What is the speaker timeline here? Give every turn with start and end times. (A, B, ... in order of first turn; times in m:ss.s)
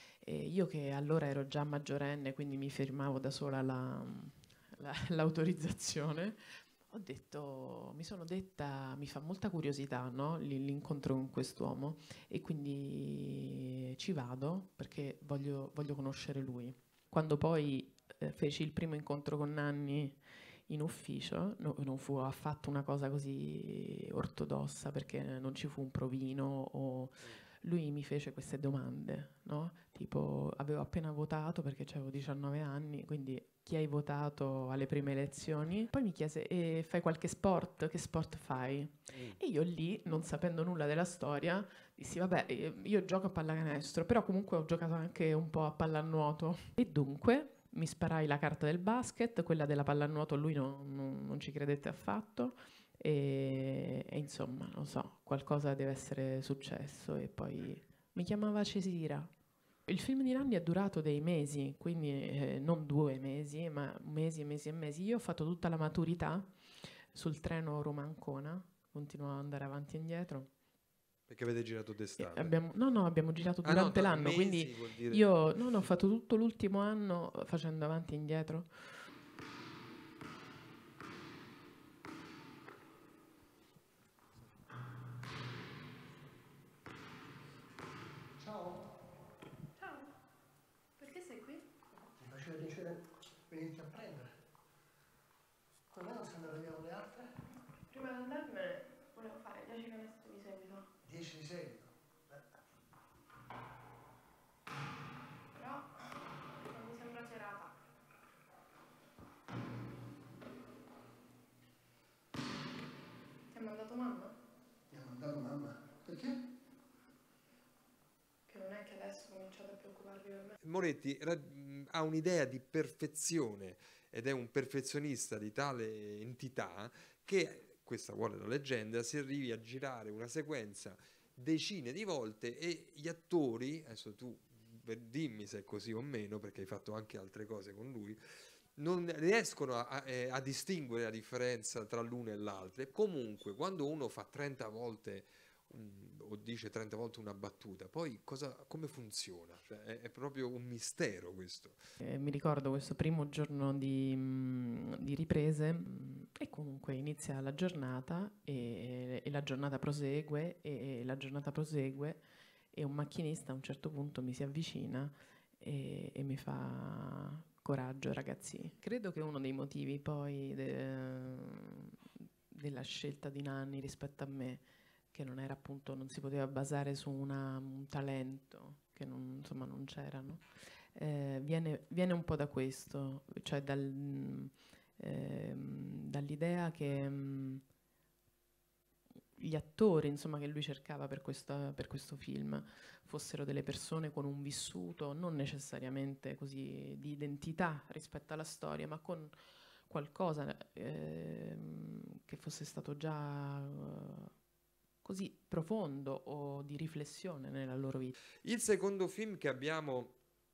0:00.2-0:59.3 A
0:39.1-0:39.4 B
0:59.9-1:10.5 A
1:11.3-1:12.6 B
1:12.2-1:18.9 A
1:13.6-1:15.3 B
1:28.4-1:28.9 C
1:29.8-1:30.1 A
1:31.0-1:31.6 A
1:32.2-1:34.3 C
1:35.9-1:37.3 C
1:37.9-1:40.9 A
1:41.0-1:42.4 C
1:45.5-1:47.7 A
1:53.5-1:54.4 A
1:54.9-1:56.4 C
1:58.5-2:00.6 A
2:00.6-2:18.2 B
2:18.8-2:31.8 B
2:32.0-2:42.2 A
2:42.7-3:07.6 A
3:09.4-3:19.3 A
3:19.8-3:24.3 A
3:25.0-3:28.1 A
3:28.4-3:30.2 B